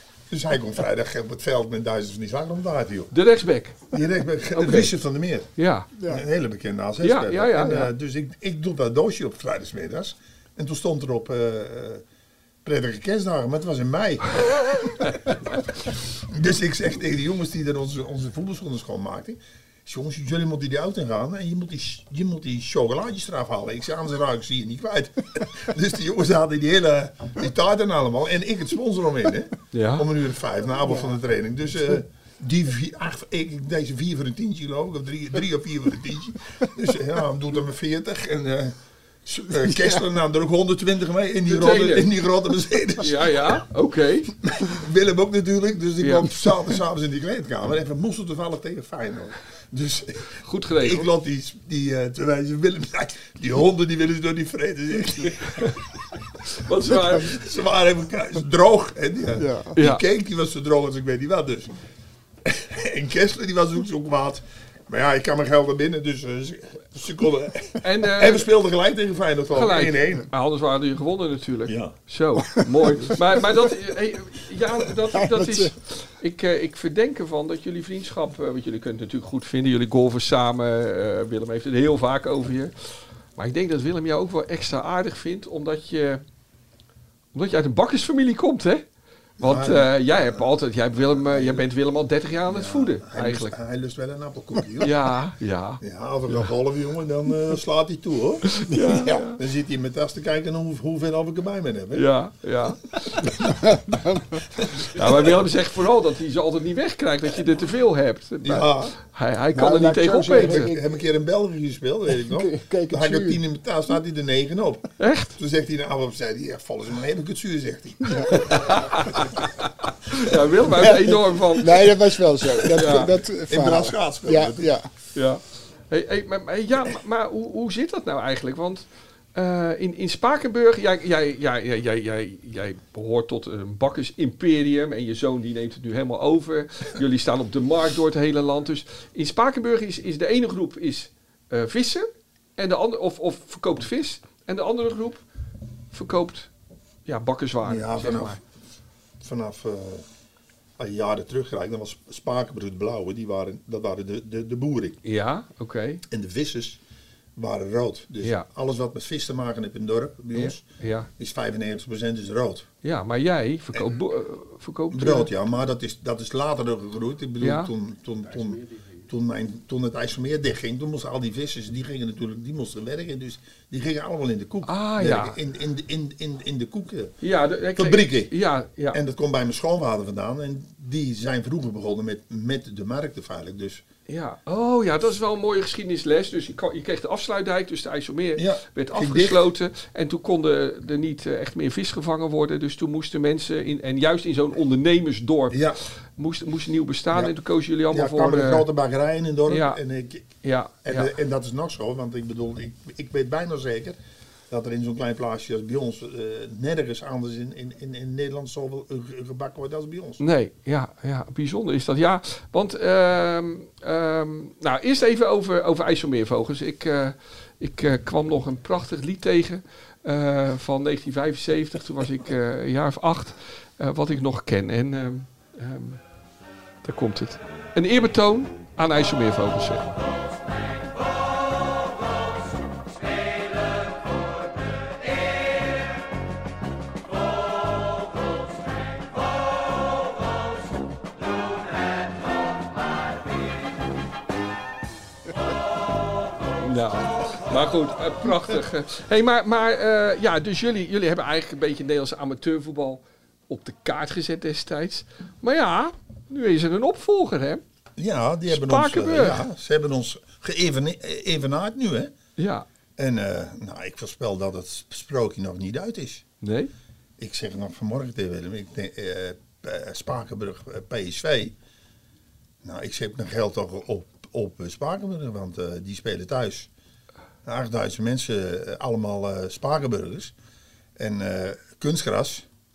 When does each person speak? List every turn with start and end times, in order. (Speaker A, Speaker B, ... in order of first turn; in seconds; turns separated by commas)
Speaker A: 0.3-3.1, Speaker B: 3.1-3.9, Speaker A: 3.9-5.5, Speaker B: 4.5-4.9, Speaker B: 5.6-5.9, Speaker C: 6.0-6.2, Speaker A: 6.0-12.0, Speaker B: 7.0-7.9, Speaker A: 12.6-15.6, Speaker A: 16.3-43.6, Speaker B: 29.7-30.1, Speaker C: 39.5-40.1, Speaker B: 41.5-42.1, Speaker B: 43.0-44.3, Speaker A: 44.4-55.9, Speaker B: 46.0-46.3, Speaker B: 50.4-51.1, Speaker B: 56.5-57.4, Speaker A: 57.1-61.8, Speaker C: 59.4-59.8, Speaker B: 59.8-60.0, Speaker A: 62.5-70.3, Speaker B: 67.8-68.5, Speaker B: 69.5-82.7, Speaker A: 71.7-72.0, Speaker C: 72.4-72.9, Speaker C: 75.0-75.8, Speaker B: 83.4-86.2, Speaker B: 87.3-88.8, Speaker B: 89.4-93.6, Speaker A: 89.4-91.7, Speaker A: 92.5-95.1, Speaker B: 94.8-95.8, Speaker A: 95.8-98.7, Speaker B: 98.5-99.4, Speaker C: 98.7-99.2, Speaker A: 99.2-102.1, Speaker B: 101.9-103.4, Speaker C: 103.3-104.4, Speaker A: 104.6-105.3, Speaker B: 104.9-110.7, Speaker A: 108.4-109.0, Speaker C: 109.5-111.0, Speaker A: 110.2-119.4, Speaker C: 112.1-113.4, Speaker B: 115.0-115.4, Speaker C: 118.0-118.5, Speaker B: 118.3-122.0, Speaker C: 121.6-124.9, Speaker B: 122.7-123.1, Speaker A: 122.8-124.7, Speaker B: 125.1-145.2, Speaker B: 145.9-146.5, Speaker B: 147.1-148.4, Speaker A: 147.6-148.4, Speaker A: 149.2-150.1, Speaker A: 150.8-155.0, Speaker B: 155.0-156.0, Speaker A: 156.1-156.8, Speaker A: 157.4-160.7, Speaker B: 158.2-158.5, Speaker B: 160.3-161.1, Speaker A: 161.2-162.7, Speaker B: 162.8-165.3, Speaker A: 163.7-164.0, Speaker A: 164.9-177.1, Speaker B: 167.4-167.7, Speaker B: 174.7-175.4, Speaker B: 177.2-179.0, Speaker A: 177.8-178.3, Speaker A: 178.9-183.8, Speaker B: 184.1-195.6, Speaker A: 188.4-189.4, Speaker A: 195.5-195.8, Speaker B: 196.2-198.7, Speaker A: 197.9-200.3, Speaker B: 199.5-199.8, Speaker B: 200.4-201.1, Speaker A: 200.8-204.0, Speaker A: 204.5-210.2, Speaker B: 210.2-226.0, Speaker B: 226.8-230.0, Speaker B: 246.6-257.6, Speaker A: 258.0-262.1, Speaker B: 258.5-259.5, Speaker B: 262.4-262.7, Speaker A: 263.0-266.2, Speaker B: 266.4-266.7, Speaker A: 267.2-271.6, Speaker A: 272.6-276.7, Speaker A: 277.4-280.3, Speaker A: 281.0-282.5